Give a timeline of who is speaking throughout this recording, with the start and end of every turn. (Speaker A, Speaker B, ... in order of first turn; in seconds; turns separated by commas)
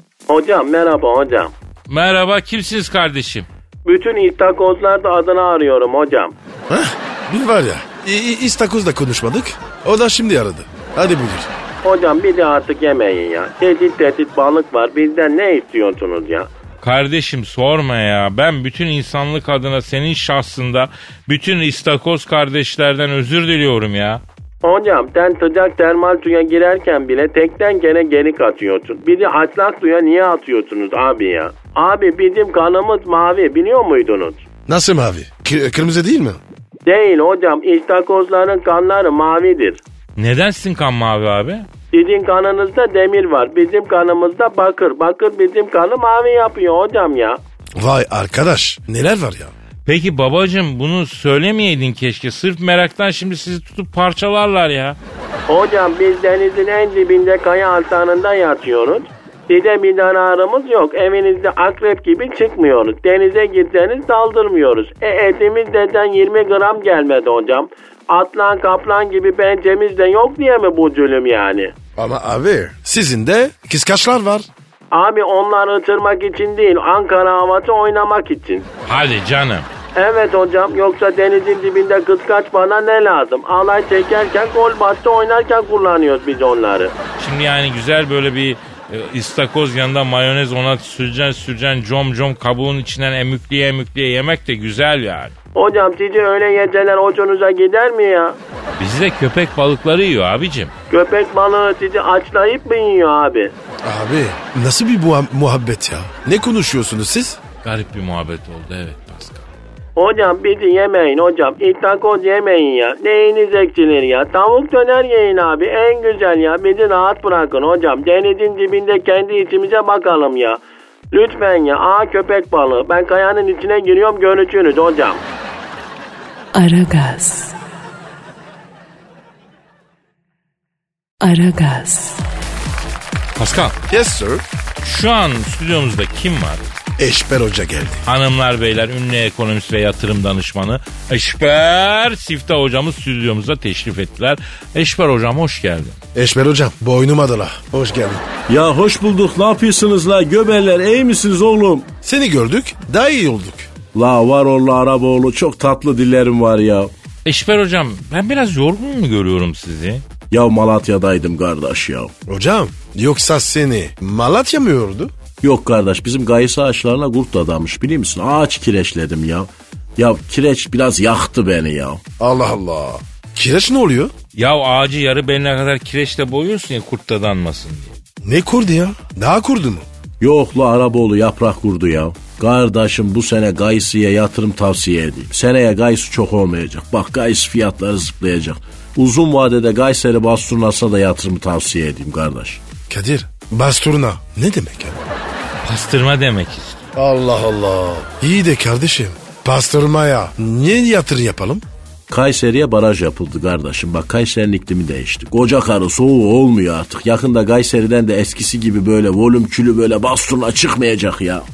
Speaker A: 0.3-1.5, Speaker B: 1.9-3.5, Speaker A: 3.8-6.3, Speaker C: 6.7-11.5, Speaker A: 11.8-16.5, Speaker B: 16.8-24.2, Speaker A: 24.6-34.4, Speaker C: 34.7-36.4, Speaker A: 36.9-39.8, Speaker B: 40.2-41.7, Speaker A: 41.9-47.4, Speaker C: 47.8-49.5, Speaker B: 49.8-55.0, Speaker A: 55.5-71.7, Speaker C: 72.0-74.5, Speaker A: 74.9-78.7, Speaker B: 78.8-79.7, Speaker A: 79.9-86.9, Speaker B: 87.2-95.3, Speaker A: 95.5-98.4, Speaker B: 98.8-100.7, Speaker A: 100.9-103.5, Speaker C: 103.8-107.4, Speaker B: 107.6-109.5, Speaker A: 110.0-120.6, Speaker A: 121.1-125.2, Speaker D: 126.5-127.5, Speaker D: 131.2-132.2, Speaker B: 133.4-133.8, Speaker C: 133.9-134.4, Speaker B: 134.8-136.6, Speaker C: 137.0-138.0, Speaker B: 138.1-146.0, Speaker C: 146.1-148.2, Speaker E: 148.5-151.9, Speaker C: 152.0-153.7, Speaker E: 153.9-156.9, Speaker B: 157.2-160.0, Speaker E: 160.3-162.1, Speaker C: 162.2-165.1, Speaker E: 165.4-172.0, Speaker C: 172.2-174.1, Speaker B: 174.3-177.9, Speaker C: 178.2-179.9, Speaker E: 180.2-192.6, Speaker C: 192.9-195.0, Speaker B: 195.6-196.9, Speaker C: 196.9-201.6, Speaker E: 202.1-211.4